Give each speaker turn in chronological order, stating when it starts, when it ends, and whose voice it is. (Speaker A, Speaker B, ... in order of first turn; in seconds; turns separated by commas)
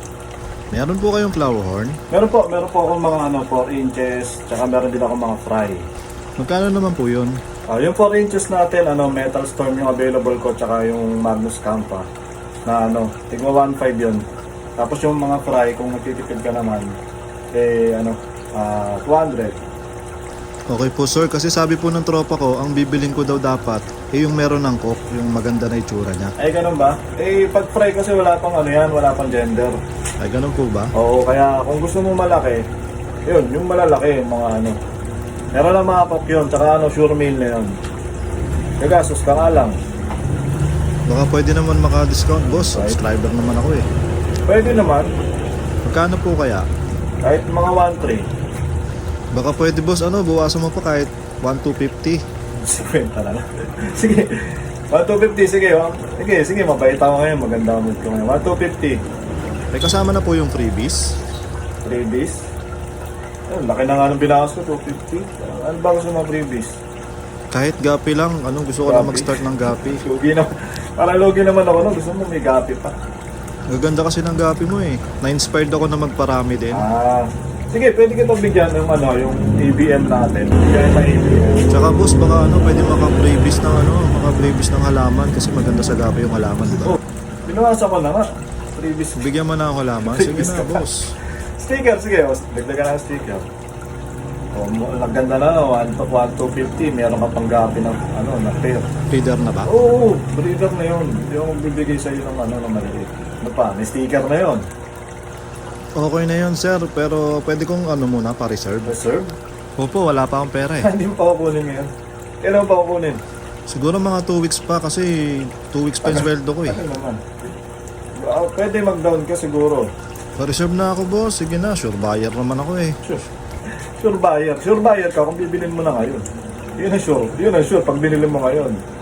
Speaker A: 0.7-2.0, Speaker B: 2.1-5.9, Speaker A: 6.4-7.4, Speaker B: 7.7-12.1, Speaker B: 12.7-14.2, Speaker B: 14.8-16.9, Speaker B: 17.5-19.6, Speaker A: 20.7-26.3, Speaker B: 26.4-29.8, Speaker A: 30.2-30.9, Speaker B: 30.9-32.6, Speaker B: 33.3-34.8, Speaker B: 35.5-37.8, Speaker B: 38.8-39.8, Speaker A: 41.1-43.9, Speaker B: 42.7-43.0, Speaker B: 44.5-45.1, Speaker A: 45.8-46.7, Speaker B: 47.2-48.3, Speaker A: 49.3-52.2, Speaker B: 52.6-59.0, Speaker A: 59.7-61.2, Speaker B: 61.8-62.4, Speaker B: 63.5-66.7, Speaker A: 67.5-70.0, Speaker B: 68.9-72.9, Speaker A: 73.7-76.8, Speaker B: 76.7-81.7, Speaker A: 81.7-87.0, Speaker B: 87.5-89.3, Speaker A: 89.2-91.1, Speaker B: 90.0-90.8, Speaker B: 91.6-93.5, Speaker B: 94.5-98.9, Speaker A: 99.1-99.7, Speaker B: 99.6-104.6, Speaker A: 106.0-108.9, Speaker B: 108.8-109.3, Speaker A: 109.8-110.9, Speaker B: 110.8-111.9, Speaker B: 112.4-113.2, Speaker A: 113.7-116.8, Speaker B: 116.0-117.3, Speaker B: 118.2-119.9, Speaker A: 120.4-123.0, Speaker B: 124.0-126.2, Speaker B: 126.8-128.8